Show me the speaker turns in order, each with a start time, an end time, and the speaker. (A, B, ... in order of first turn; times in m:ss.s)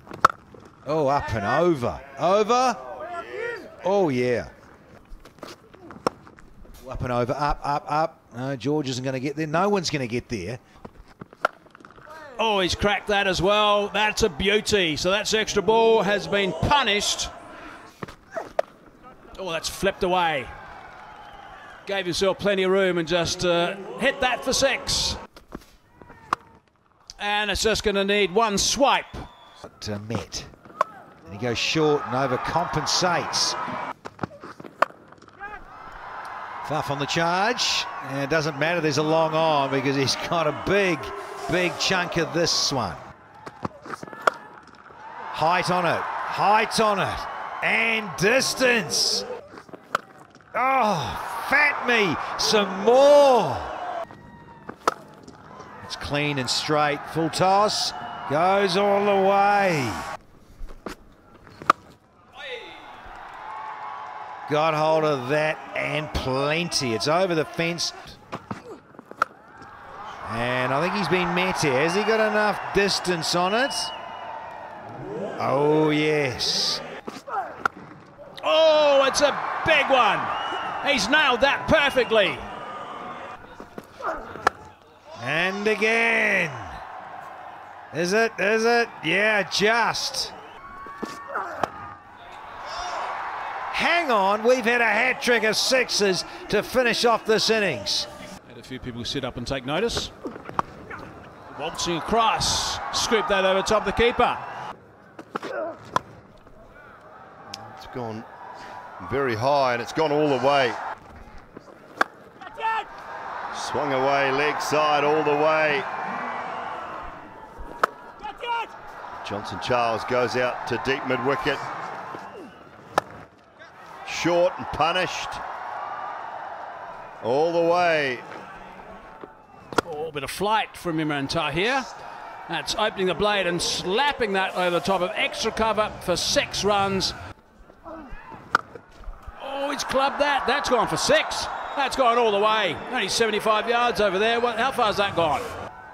0:00.8-0:02.8 A
0:03.6-0:04.5 A
0:06.8-0:10.6 A
0:12.4-0:17.3 B
0:19.3-0:20.5 B
0:21.8-0:25.2 B
0:27.2-0:29.3 B
0:29.6-0:30.5 A
0:31.2-0:33.6 A
0:36.6-0:43.0 A
0:45.3-0:49.2 A
0:50.5-0:53.8 A
0:55.8-1:00.1 A
1:04.5-1:08.2 A
1:10.2-1:13.9 A
1:15.4-1:16.8 A
1:18.4-1:22.4 B
1:25.2-1:26.8 A
1:27.9-1:30.3 A
1:33.7-1:38.1 A
1:38.4-1:40.1 B
1:41.5-1:44.4 B
1:47.5-1:48.3 C
1:49.0-1:50.8 C
1:53.5-1:55.9 C
1:59.2-2:01.6 C
2:04.0-2:05.4 C
2:07.2-2:08.3 C
2:09.8-2:11.9 B
2:12.5-2:17.2 B
2:19.4-2:25.5 B